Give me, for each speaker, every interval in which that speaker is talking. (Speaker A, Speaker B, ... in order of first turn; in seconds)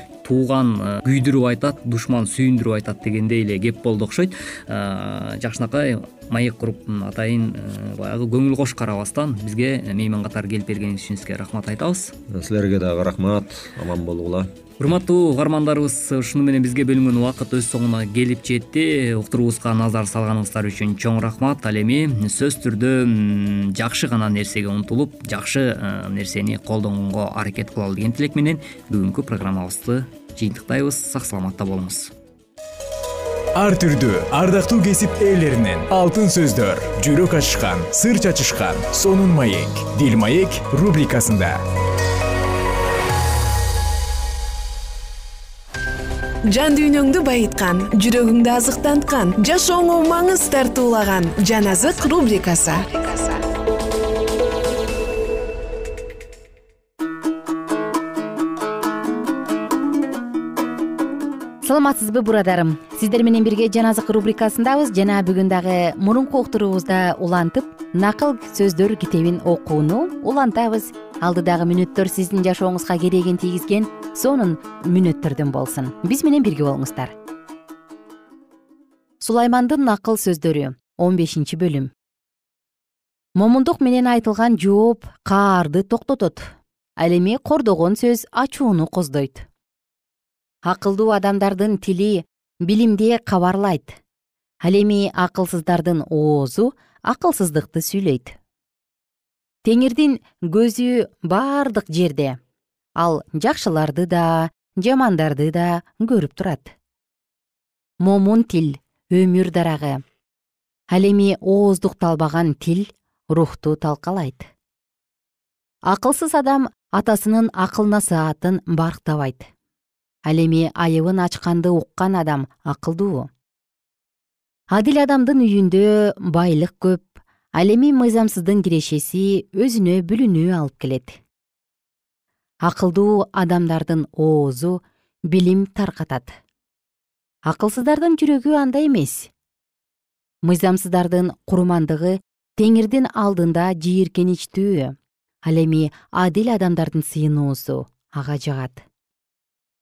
Speaker A: 0.2-12.1, 14.8-32.1
Speaker B: 12.3-14.5
Speaker C: 33.5-41.6
Speaker D: 46.5-53.4
Speaker E: 61.6-77.1, 79.2-81.9, 83.3-89.5, 90.6-94.0, 94.6-98.3, 99.6-102.4, 103.0-106.7, 108.0-110.0, 110.9-114.5, 115.9-119.5, 120.3-123.3, 124.7-131.2, 132.6-136.4, 137.4-139.3, 140.4-144.9, 145.4-148.8